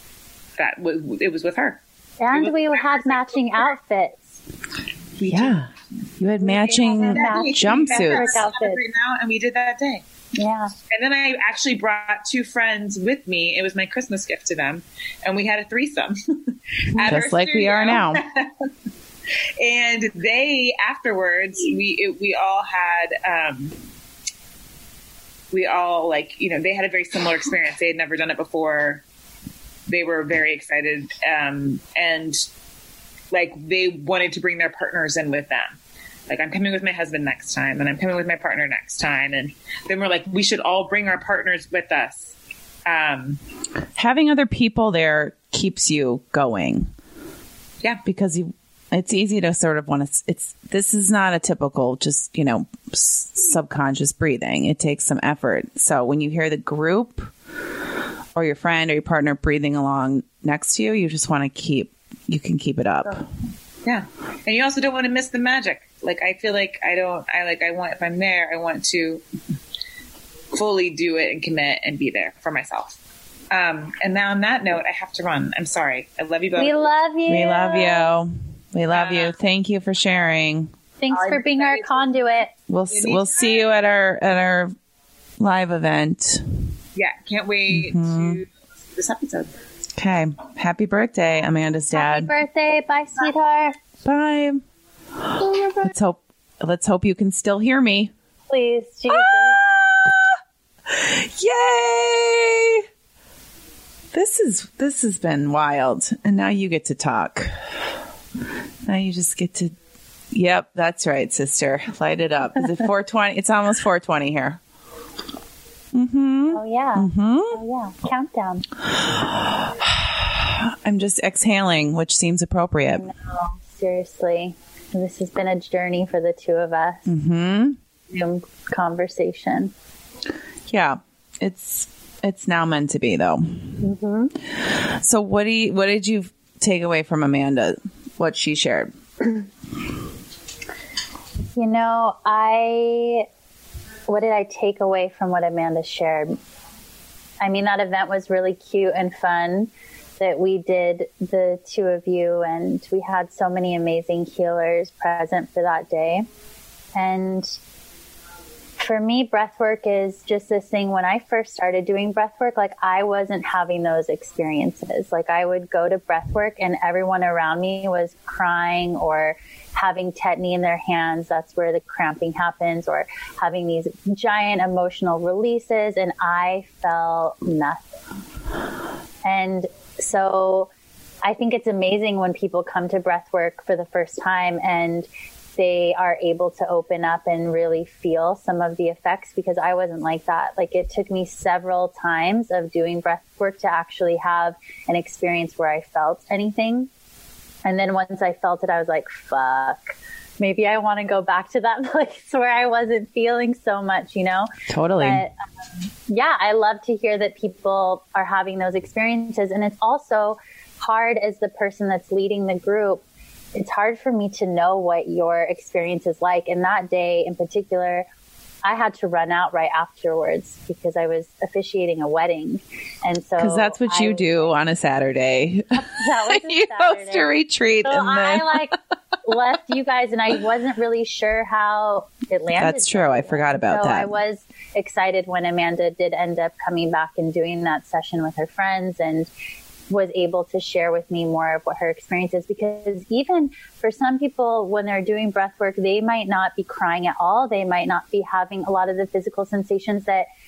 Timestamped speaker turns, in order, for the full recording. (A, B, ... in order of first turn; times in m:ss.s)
0:00.6-0:01.8 A
0:02.2-0:04.3 B
0:02.3-0:03.7 A
0:05.2-0:05.6 A
0:05.2-0:08.4 C
0:06.4-0:10.0 A
0:07.0-0:08.8 B
0:10.4-0:10.7 B
0:10.9-0:18.7 A
0:17.0-0:18.2 C
0:19.6-0:23.7 A
0:25.5-0:29.0 A
0:29.9-0:32.4 A
0:33.3-0:35.7 A
0:36.3-0:42.3 A
0:42.8-0:43.4 A
0:44.0-0:46.9 C
0:48.0-0:57.3 C
0:58.3-1:03.2 C
1:03.8-1:09.2 A
1:10.5-1:13.0 A
1:13.5-1:16.9 A
1:16.6-1:18.1 B
1:17.3-1:20.7 C
1:18.9-1:19.3 A
1:21.0-1:22.5 B
1:21.1-1:22.1 A
1:22.7-1:24.7 C
1:22.9-1:23.7 A
1:25.4-1:26.7 C
1:26.9-1:29.5 A
1:27.7-1:28.4 C
1:30.0-1:32.3 C
1:31.9-1:33.8 B
1:34.0-1:34.6 C
1:35.2-1:38.1 C
1:35.4-1:35.9 B
1:38.5-1:39.6 B
1:39.1-1:40.4 C
1:40.9-1:42.8 C
1:44.1-1:47.5 C
1:48.8-1:49.7 C
1:50.3-1:54.6 C
1:55.9-1:57.6 C
1:56.5-1:58.6 B
1:58.8-2:03.1 C
2:03.0-2:07.1 B
2:07.0-2:07.8 C
2:08.1-2:09.7 B
2:10.7-2:13.8 C
2:13.8-2:14.3 B
2:14.5-2:18.9 C
2:21.6-2:23.3 B
2:24.1-2:26.4 B
2:27.4-2:36.2 B
2:37.0-2:37.6 B
2:38.8-2:57.8 B
2:59.2-3:00.7 B
3:01.2-3:16.9 B
3:17.6-3:24.5 B
3:24.7-3:25.2 C
3:25.0-3:25.3 B
3:26.1-3:33.0 B
3:33.5-3:38.0 B
3:38.6-3:44.5 B
3:43.4-3:48.6 C
3:45.7-3:47.3 B
3:47.8-3:59.3 B
3:52.6-3:54.1 C
3:59.9-4:10.3 B